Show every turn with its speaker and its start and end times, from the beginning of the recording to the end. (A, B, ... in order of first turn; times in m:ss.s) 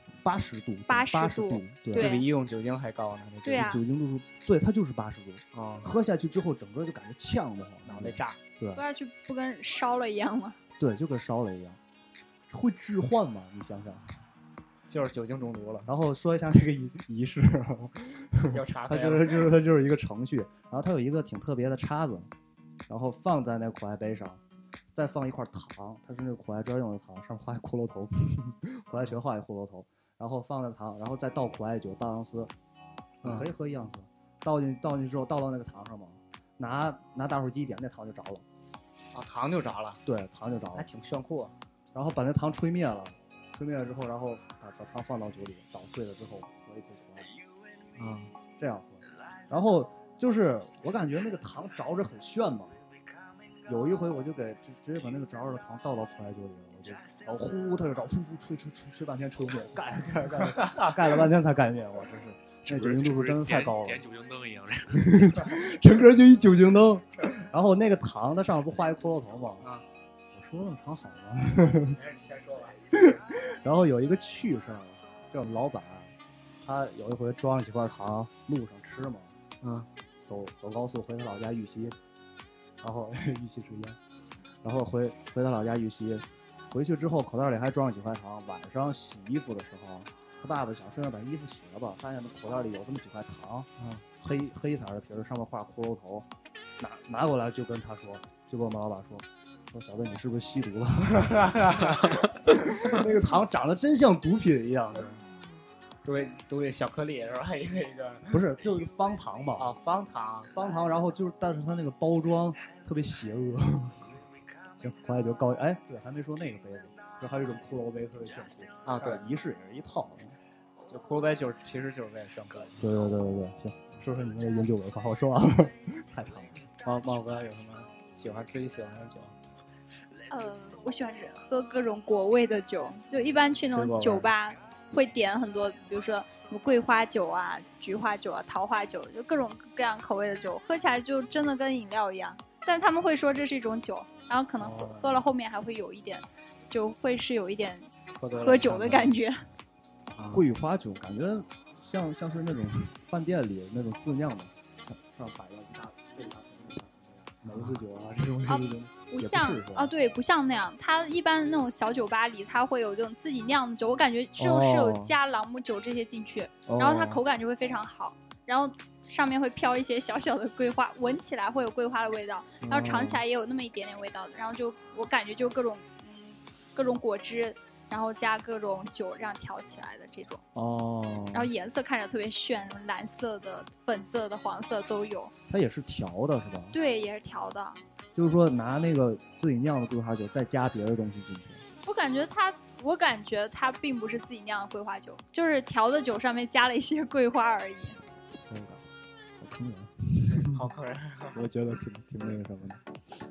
0:00.2-0:02.2 A
0:00.9-0:02.3 B
0:01.9-0:03.7 C
0:03.4-0:03.8 B
0:03.5-0:08.8 A
0:05.5-0:05.9 C
0:07.9-0:08.4 C
0:08.8-0:10.6 B
0:10.8-0:11.8 A
0:12.5-0:14.1 A
0:14.9-0:15.9 C
0:15.9-0:22.3 A
0:18.5-0:19.5 C
0:22.9-0:24.4 A
0:24.9-0:32.5 A
0:33.2-0:33.5 C
0:33.2-0:38.4 A
0:39.1-0:40.0 C
0:40.1-0:40.9 A
0:40.8-0:41.6 C
0:41.9-0:47.3 A
0:48.0-0:48.3 C
0:48.6-0:52.8 A
0:53.7-1:04.0 A
1:02.7-1:05.2 D
1:04.9-1:09.7 A
1:10.3-1:12.0 A
1:11.9-1:13.0 C
1:12.9-1:19.3 A
1:19.6-1:19.9 C
1:20.1-1:22.0 A
1:22.8-1:24.0 A
1:24.6-1:36.3 A
1:33.8-1:34.0 C
1:36.8-1:45.2 A
1:41.1-1:43.0 C
1:46.0-1:48.4 C
1:48.3-1:49.7 A
1:49.6-1:50.8 C
1:50.5-1:54.1 A
1:54.8-2:00.4 A
1:58.8-1:59.2 C
2:00.9-2:02.8 C
2:02.8-2:06.6 A
2:06.8-2:09.4 C
2:10.3-2:29.4 B
2:13.7-2:14.3 C
2:24.6-2:25.2 C
2:28.2-2:29.1 C
2:30.2-2:30.4 C
2:30.3-2:39.9 A
2:37.4-2:37.8 C
2:38.5-3:00.4 B
2:44.4-2:45.2 A
2:46.7-2:47.2 A
2:52.6-2:53.2 A
3:00.6-3:01.5 A
3:01.3-3:05.3 B
3:05.5-3:06.8 A
3:06.7-3:07.8 B
3:08.2-3:11.6 A
3:11.8-3:18.0 B
3:18.4-3:18.9 A
3:19.4-3:20.6 A
3:20.2-3:21.4 C
3:21.3-3:22.8 A